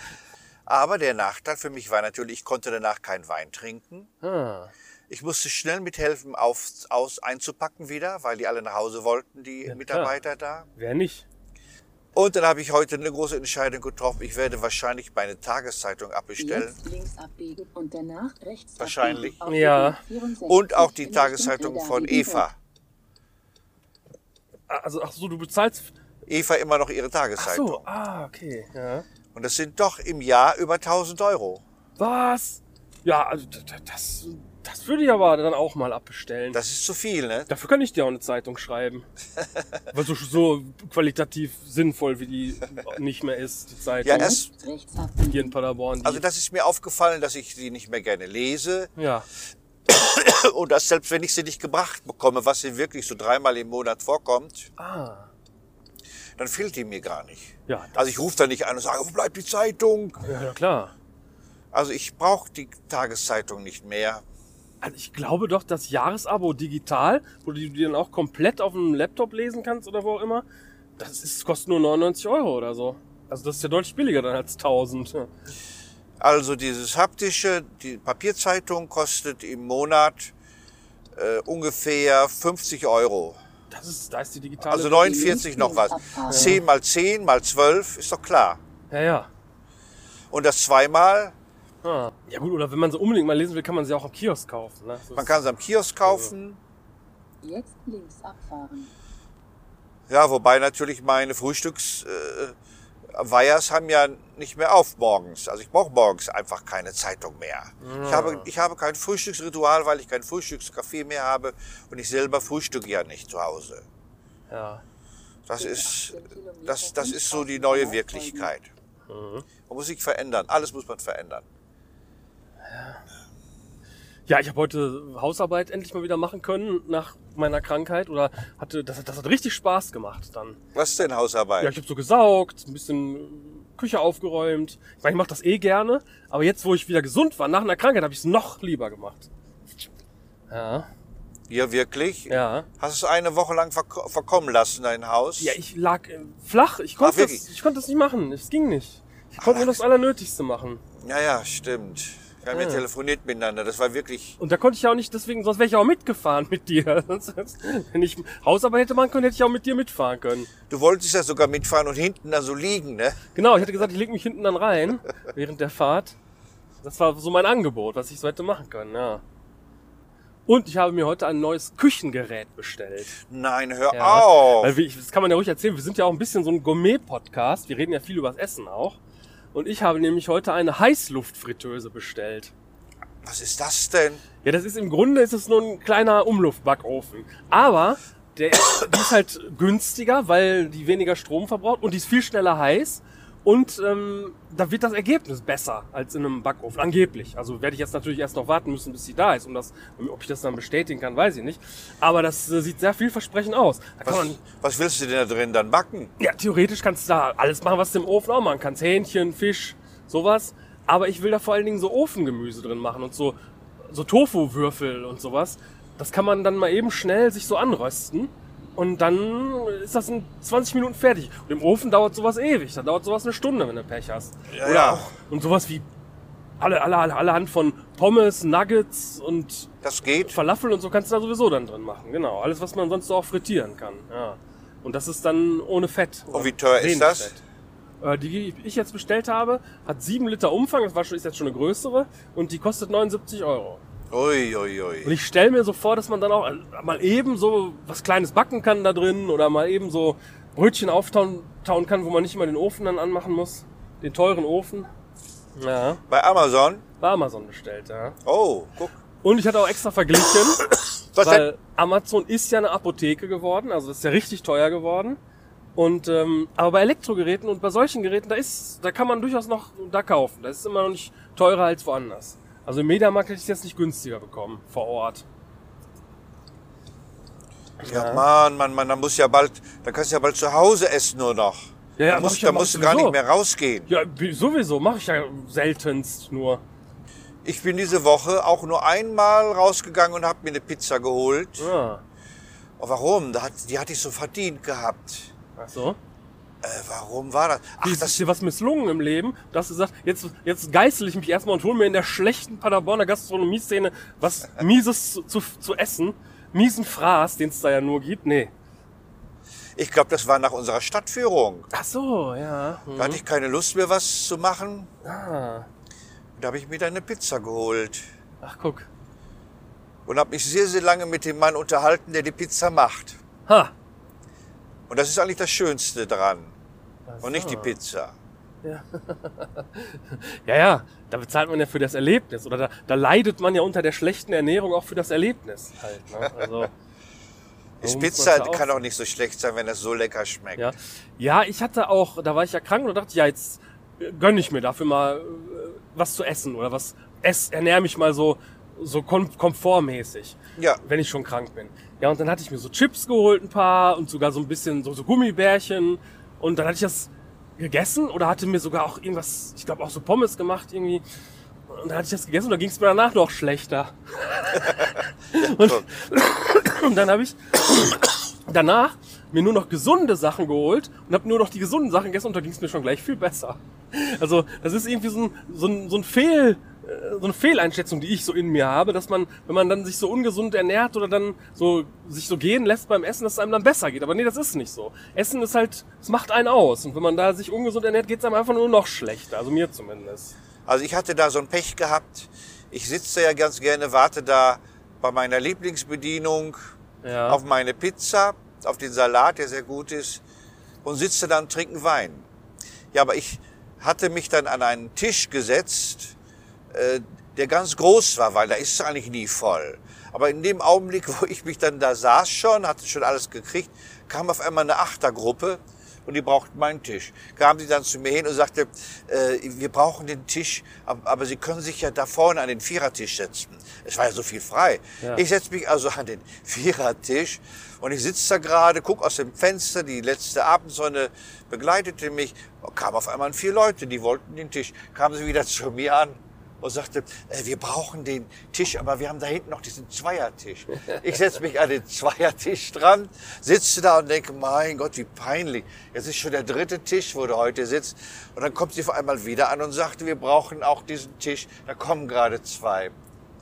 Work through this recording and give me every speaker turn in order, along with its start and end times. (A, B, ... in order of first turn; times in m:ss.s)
0:00.7-0:04.1 A
0:04.2-0:04.7 B
0:05.1-0:10.7 A
0:09.7-0:10.2 B
0:10.8-0:11.3 B
0:12.2-0:16.8 A
0:16.4-0:22.5 C
0:18.8-0:19.4 A
0:19.5-0:20.0 B
0:20.4-0:22.6 A
0:24.7-0:25.9 B
0:26.3-0:27.9 A
0:27.4-0:29.0 B
0:29.4-0:31.6 A
0:32.0-0:36.6 B
0:36.5-0:37.5 A
0:37.5-0:39.1 B
0:39.9-0:44.4 B
0:44.0-0:44.5 A
0:44.0-0:45.5 C
0:45.3-0:46.2 B
0:46.0-0:48.9 A
0:49.0-0:49.3 B
0:49.9-0:54.7 A
0:54.8-0:55.3 B
0:56.4-1:00.2 A
0:57.7-0:58.0 B
1:00.2-1:00.9 B
1:01.7-1:04.2 A
1:04.8-1:10.5 B
1:11.0-1:15.3 B
1:16.2-1:20.3 A
1:21.2-1:23.4 A
1:23.7-1:25.4 B
1:24.6-1:28.6 A
1:25.0-1:26.6 C
1:26.3-1:26.6 B
1:28.9-1:29.3 B
1:30.3-1:31.4 A
1:31.8-1:35.4 B
1:35.2-1:36.6 A
1:36.0-1:36.3 B
1:37.4-1:38.9 C
1:40.1-1:42.6 A
1:43.1-1:53.8 A
1:47.8-1:48.5 B
1:54.5-1:54.8 B
1:55.5-1:58.7 A
1:55.6-1:58.5 C
1:59.1-1:59.5 B
1:59.7-2:01.5 A
2:02.6-2:03.0 B
2:04.3-2:10.6 B
2:10.8-2:11.8 A
2:11.6-2:19.3 B
2:20.5-2:20.9 B
2:21.5-2:25.6 A
2:22.3-2:22.7 B
2:25.4-2:30.8 B
2:27.0-2:27.5 A
2:29.4-2:29.8 A
2:31.0-2:34.4 A
2:32.5-2:32.8 B
2:34.4-2:40.5 B
2:40.7-2:43.2 A
2:43.3-2:46.2 B
2:46.8-2:49.2 B
2:50.5-2:53.1 B
2:53.3-2:54.8 A
2:53.9-2:59.0 B
2:59.5-3:02.5 B
3:03.2-3:04.2 A
3:04.4-3:24.4 B
3:24.0-3:26.1 A
3:26.2-3:45.8 B
3:44.5-3:45.1 A
3:46.6-3:49.7 B
3:49.8-3:50.4 A
3:50.2-3:57.4 B
3:56.3-3:57.4 A
3:58.0-4:03.8 B
4:04.1-4:05.2 A
4:05.0-4:14.9 B
4:15.6-4:16.0 B
4:16.1-4:16.8 A
4:17.0-4:18.2 B
4:18.2-4:19.0 A
4:19.2-4:25.2 B
4:21.2-4:21.5 A
4:25.8-4:35.2 B
4:37.8-4:38.3 B
4:37.9-4:43.9 A
4:42.0-4:43.2 B
4:43.9-4:46.6 B
4:47.4-4:51.7 A
4:51.6-4:52.0 B
4:52.8-4:55.3 A
4:55.6-4:56.0 B
4:56.6-4:58.3 A
4:57.8-5:08.5 B
5:09.8-5:11.7 A
5:11.7-5:13.2 B
5:13.0-5:14.9 A
5:15.0-5:15.7 B
5:16.4-5:18.0 A
5:18.4-5:18.9 B
5:20.1-5:23.2 A
5:23.5-5:23.7 B
5:24.9-5:26.6 A
5:27.1-5:27.8 B
5:27.2-5:28.2 A
5:28.6-5:36.7 B
5:37.8-5:40.7 A
5:37.8-5:38.8 B
5:40.6-6:01.0 B
5:50.6-5:50.8 A
6:01.7-6:30.4 B
6:05.4-6:05.9 A
6:30.7-6:36.6 A
6:37.0-6:37.4 B
6:37.3-6:40.2 A
6:40.8-6:42.3 A
6:42.9-6:46.2 A
6:46.7-7:32.9 A